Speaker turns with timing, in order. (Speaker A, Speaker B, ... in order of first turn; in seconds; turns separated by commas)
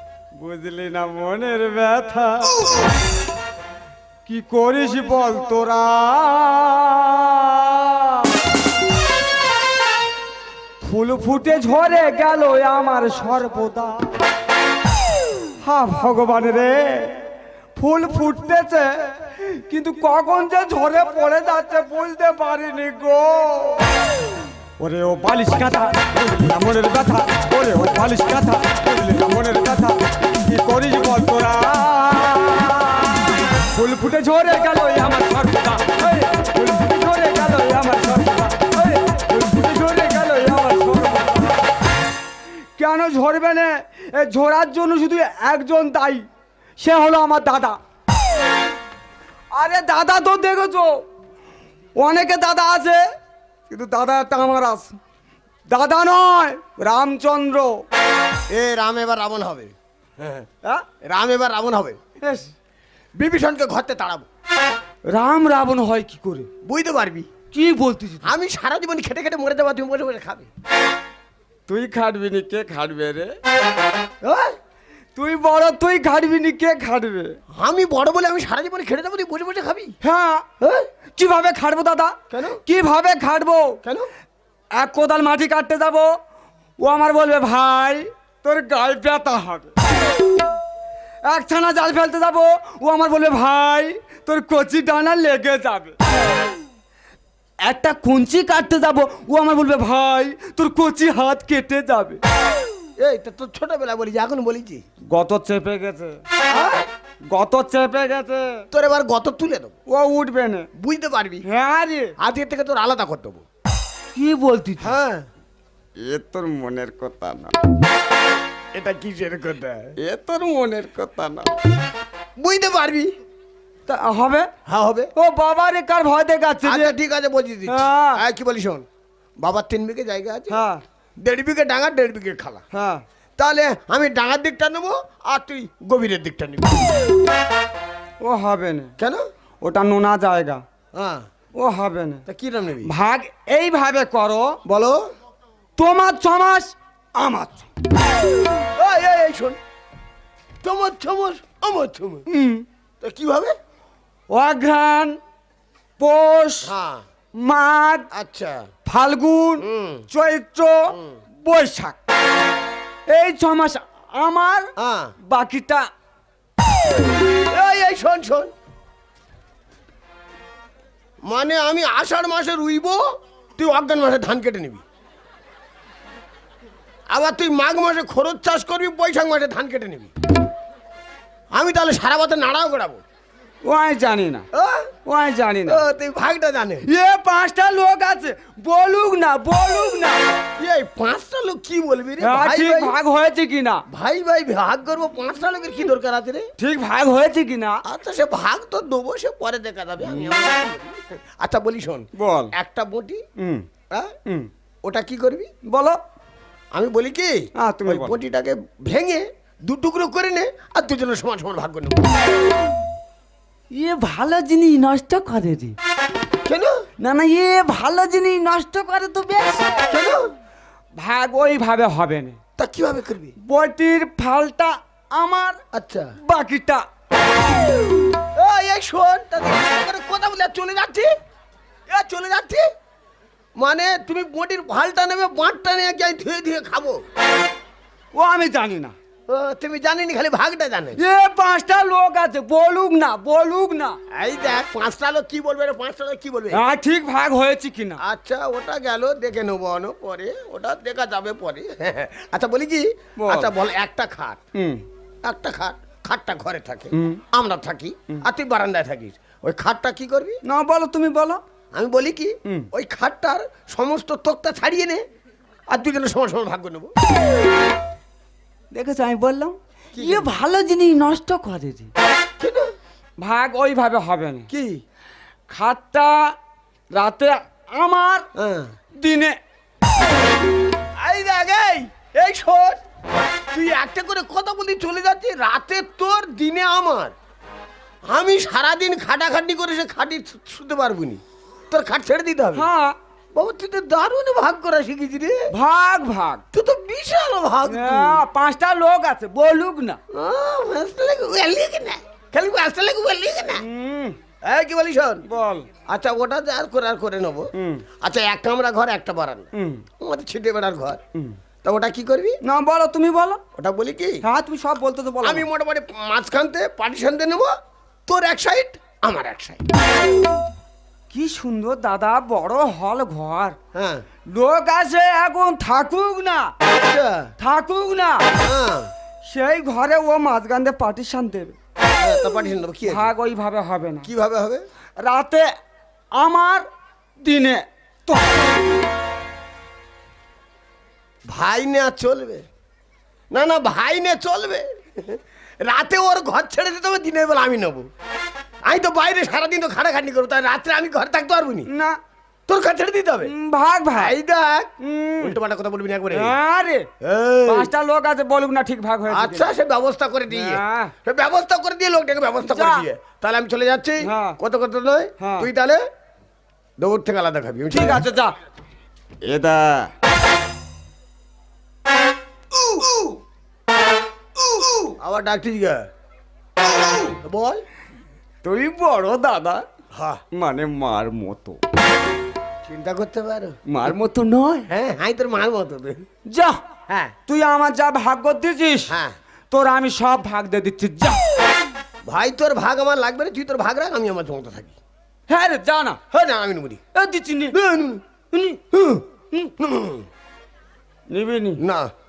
Speaker A: 0.4-2.7, Speaker A: 4.3-8.3, Speaker A: 10.8-14.1, Speaker A: 15.6-17.2, Speaker A: 17.8-24.1, Speaker A: 24.8-41.6, Speaker A: 42.8-46.2, Speaker A: 46.8-47.8, Speaker A: 49.5-51.1, Speaker A: 52.0-53.0, Speaker A: 53.7-55.0, Speaker A: 55.7-57.8, Speaker B: 58.5-60.5, Speaker B: 61.0-62.0, Speaker A: 62.2-62.5, Speaker B: 63.2-64.3, Speaker A: 65.1-66.5, Speaker B: 66.6-67.3, Speaker A: 67.5-68.3, Speaker B: 68.2-70.5, Speaker A: 71.7-73.4, Speaker B: 74.2-74.6, Speaker A: 75.2-77.3, Speaker B: 77.6-79.9, Speaker A: 80.0-80.5, Speaker B: 80.6-80.9, Speaker A: 81.2-83.8, Speaker B: 82.3-82.6, Speaker B: 83.8-84.1, Speaker A: 84.8-86.1, Speaker A: 86.8-89.7, Speaker A: 91.2-96.0, Speaker A: 97.6-102.2, Speaker B: 103.0-104.8, Speaker A: 105.1-106.2, Speaker B: 106.5-106.9, Speaker A: 107.3-108.6, Speaker B: 108.7-109.7, Speaker A: 109.9-110.7, Speaker B: 110.8-111.5, Speaker A: 111.5-112.1, Speaker B: 112.2-113.4, Speaker A: 114.2-114.9, Speaker B: 114.8-115.3, Speaker A: 116.0-117.6, Speaker B: 118.7-120.0, Speaker A: 120.0-121.5, Speaker B: 122.4-123.1, Speaker A: 123.9-124.5, Speaker B: 124.7-125.1, Speaker A: 125.2-126.9, Speaker B: 126.6-128.8, Speaker A: 127.7-128.2, Speaker B: 129.4-130.6, Speaker A: 130.5-130.8, Speaker B: 131.2-132.6, Speaker A: 132.7-133.0, Speaker B: 133.4-136.9, Speaker A: 138.2-138.9, Speaker A: 139.6-140.6, Speaker B: 140.9-141.3, Speaker A: 141.6-142.2, Speaker B: 142.3-142.9, Speaker A: 142.8-144.6, Speaker B: 144.7-145.0, Speaker A: 145.8-147.7, Speaker B: 148.8-149.6, Speaker B: 150.6-152.3, Speaker A: 152.3-152.7, Speaker B: 153.0-153.6, Speaker A: 154.3-155.2, Speaker A: 156.0-156.7, Speaker B: 156.6-157.1, Speaker A: 157.4-158.1, Speaker B: 158.1-158.7, Speaker A: 158.9-160.9, Speaker B: 159.6-160.1, Speaker B: 160.9-161.2, Speaker A: 161.4-162.0, Speaker A: 163.1-164.7, Speaker B: 164.8-165.1, Speaker A: 165.2-165.9, Speaker B: 167.5-168.5, Speaker B: 171.2-174.8, Speaker B: 177.1-180.1, Speaker B: 181.5-183.0, Speaker A: 183.7-184.4, Speaker B: 184.5-184.9, Speaker A: 185.1-185.8, Speaker B: 185.7-186.9, Speaker A: 186.9-190.2, Speaker B: 190.6-192.9, Speaker A: 192.2-193.8, Speaker B: 193.9-196.5, Speaker A: 196.6-197.8, Speaker B: 197.8-203.2, Speaker A: 202.2-202.5, Speaker A: 203.4-203.7, Speaker B: 204.8-205.5, Speaker A: 205.7-206.0, Speaker B: 206.7-212.2, Speaker A: 207.6-208.2, Speaker A: 213.7-215.8, Speaker B: 216.4-216.8, Speaker A: 217.0-220.1, Speaker B: 219.9-220.3, Speaker A: 221.0-222.4, Speaker B: 222.6-223.3, Speaker A: 223.4-225.6, Speaker B: 225.7-226.1, Speaker A: 226.2-226.8, Speaker B: 228.3-231.1, Speaker B: 231.9-232.7, Speaker B: 233.6-237.1, Speaker A: 238.1-238.9, Speaker B: 239.3-241.0, Speaker A: 241.0-244.0, Speaker B: 244.1-246.6, Speaker A: 246.5-248.0, Speaker B: 248.0-254.4, Speaker A: 253.2-253.5, Speaker A: 254.6-254.8, Speaker B: 255.2-260.4, Speaker A: 256.9-257.2, Speaker A: 260.4-261.4, Speaker B: 261.7-265.0, Speaker B: 265.7-266.9, Speaker A: 268.7-271.9, Speaker B: 269.9-270.3, Speaker B: 272.4-272.7, Speaker A: 273.2-274.5, Speaker B: 274.5-274.8, Speaker A: 275.5-276.3, Speaker A: 276.9-278.2, Speaker B: 278.4-278.7, Speaker A: 279.0-279.4, Speaker B: 281.0-282.8, Speaker B: 283.5-287.1, Speaker B: 288.1-292.7, Speaker A: 292.5-293.0, Speaker B: 293.3-295.5, Speaker A: 295.5-296.4, Speaker B: 296.5-298.2, Speaker A: 297.7-300.0, Speaker B: 300.1-303.6, Speaker A: 303.6-304.2, Speaker B: 304.4-305.2, Speaker A: 305.3-305.7, Speaker B: 305.9-309.5, Speaker A: 307.6-307.8, Speaker A: 309.5-309.8, Speaker B: 310.0-311.0, Speaker B: 311.6-312.4, Speaker A: 312.4-313.4, Speaker B: 313.6-314.2, Speaker A: 314.2-315.5, Speaker B: 315.2-317.5, Speaker B: 318.1-319.6, Speaker A: 321.1-323.6, Speaker B: 323.7-324.1, Speaker A: 324.3-326.5, Speaker B: 326.7-327.3, Speaker A: 327.4-328.3, Speaker B: 328.4-328.9, Speaker A: 329.2-331.6, Speaker B: 332.0-333.1, Speaker A: 332.9-334.1, Speaker B: 334.1-334.6, Speaker A: 335.0-335.5, Speaker A: 336.2-336.6, Speaker A: 337.2-338.8, Speaker B: 341.3-342.4, Speaker B: 343.3-347.9, Speaker B: 348.6-351.7, Speaker A: 351.7-352.0, Speaker B: 352.5-353.3, Speaker A: 353.2-354.1, Speaker B: 354.0-356.3, Speaker A: 354.8-355.4, Speaker A: 356.1-356.9, Speaker B: 357.0-357.7, Speaker A: 357.5-359.5, Speaker B: 359.1-365.8, Speaker A: 360.3-360.9, Speaker A: 362.4-362.8, Speaker A: 364.0-364.4, Speaker A: 365.2-365.5, Speaker B: 366.8-368.1, Speaker A: 367.7-368.4, Speaker A: 369.2-369.9, Speaker B: 375.0-375.9, Speaker B: 377.2-377.6, Speaker A: 378.4-379.6, Speaker B: 379.9-380.2, Speaker A: 380.3-381.6, Speaker B: 382.6-383.6, Speaker A: 383.7-384.7, Speaker B: 384.7-386.1, Speaker A: 386.3-386.6, Speaker B: 386.9-387.1, Speaker A: 387.3-389.0, Speaker B: 388.9-389.2, Speaker A: 389.5-391.2, Speaker B: 392.1-394.8, Speaker A: 395.3-396.0, Speaker B: 396.1-396.8, Speaker A: 396.9-397.6, Speaker B: 397.5-398.0, Speaker A: 398.3-398.6, Speaker B: 398.7-400.1, Speaker A: 401.1-401.6, Speaker B: 401.6-401.9